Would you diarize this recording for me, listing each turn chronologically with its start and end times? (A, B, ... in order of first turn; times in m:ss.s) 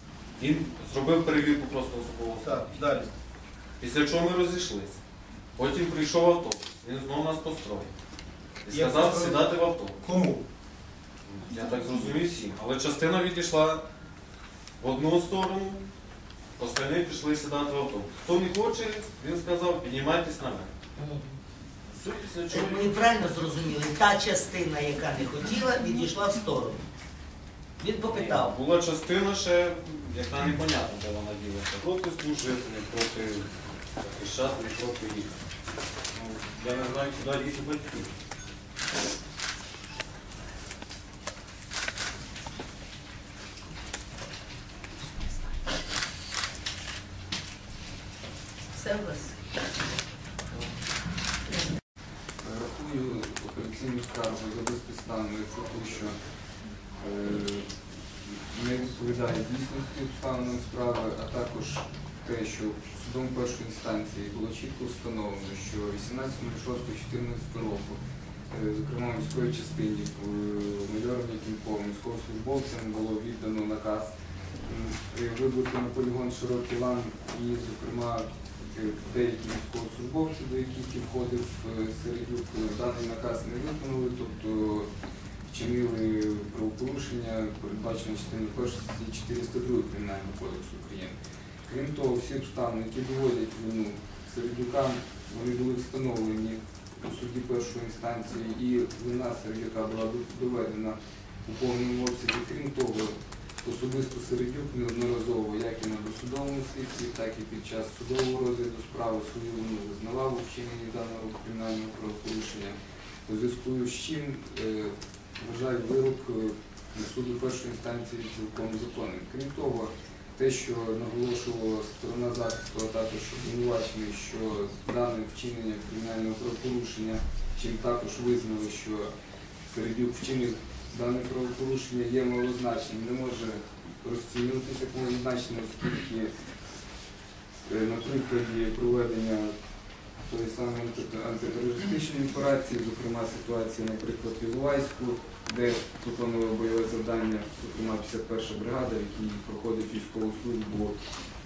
0:00.4-0:02.8 A
0:02.4-0:03.1 B
0:03.8-0:05.0 A
0:05.6-0:07.9 A
0:08.6-0:10.0 A
0:08.7-0:10.4 B
0:11.3-0:13.8 A
0:14.8-0:15.9 A
0:16.6-0:20.7 A
0:21.0-0:21.4 C
0:21.9-0:23.1 A
0:22.5-0:26.8 C
0:27.8-0:28.6 C
0:28.0-0:35.3 A
0:36.1-0:38.1 A
0:52.4-0:56.2 D
0:57.0-0:57.7 D
0:58.5-1:08.0 D
1:08.5-1:14.1 D
1:14.7-1:24.9 D
1:25.5-2:09.1 D
2:09.7-2:16.3 D
2:17.7-2:19.5 D
2:20.3-2:31.0 D